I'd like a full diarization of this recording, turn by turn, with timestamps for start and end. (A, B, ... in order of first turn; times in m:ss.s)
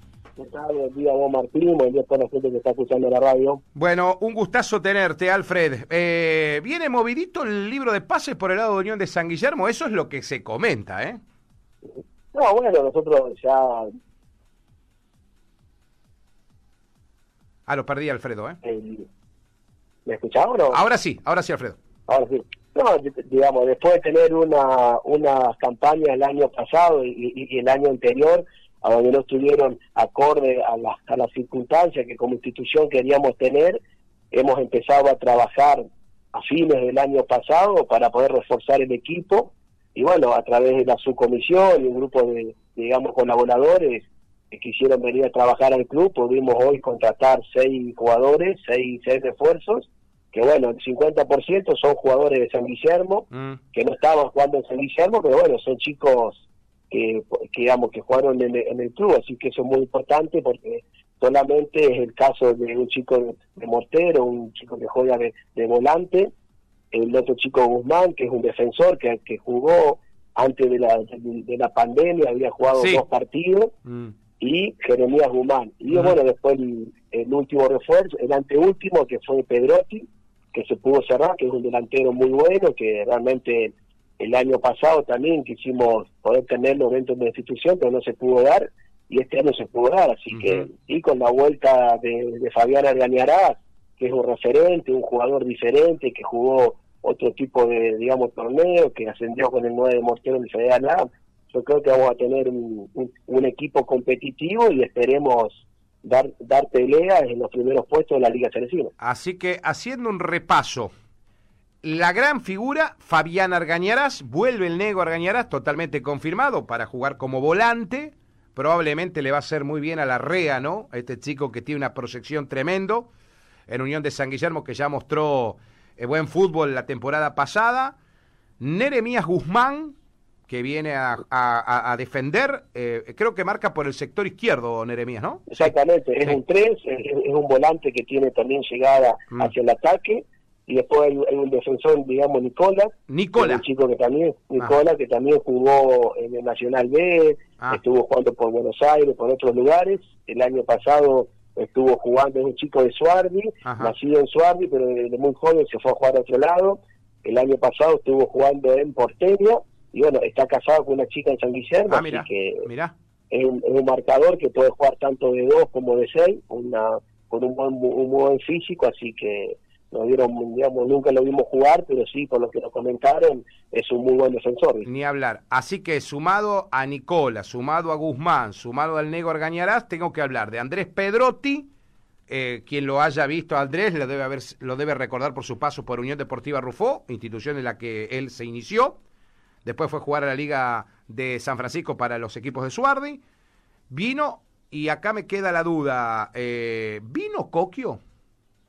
0:00.4-0:03.6 A
0:03.7-0:11.2 B
0:11.8-0:13.9 A
0:17.7-0:18.6 B
0:18.6-0:19.1 A
0:20.0-0:20.8 A
0:20.7-0:21.8 B
0:22.1-0:33.8 A
0:34.3-1:06.3 A
0:53.3-0:53.6 B
1:06.9-1:13.7 A
1:12.7-1:13.0 B
1:13.8-1:14.1 B
1:14.4-1:48.9 A
1:15.9-1:16.1 B
1:30.3-1:30.7 B
1:49.0-1:50.9 B
1:51.8-2:03.1 B
2:03.7-2:08.0 B
2:08.6-2:10.0 B
2:10.5-2:15.7 B
2:15.5-2:42.7 A
2:23.1-2:23.6 B
2:33.6-2:33.9 B
2:41.9-2:42.9 B
2:43.3-2:54.9 A
2:54.8-3:01.7 B
3:02.3-3:09.0 B
3:09.6-3:13.2 B
3:13.9-3:18.0 B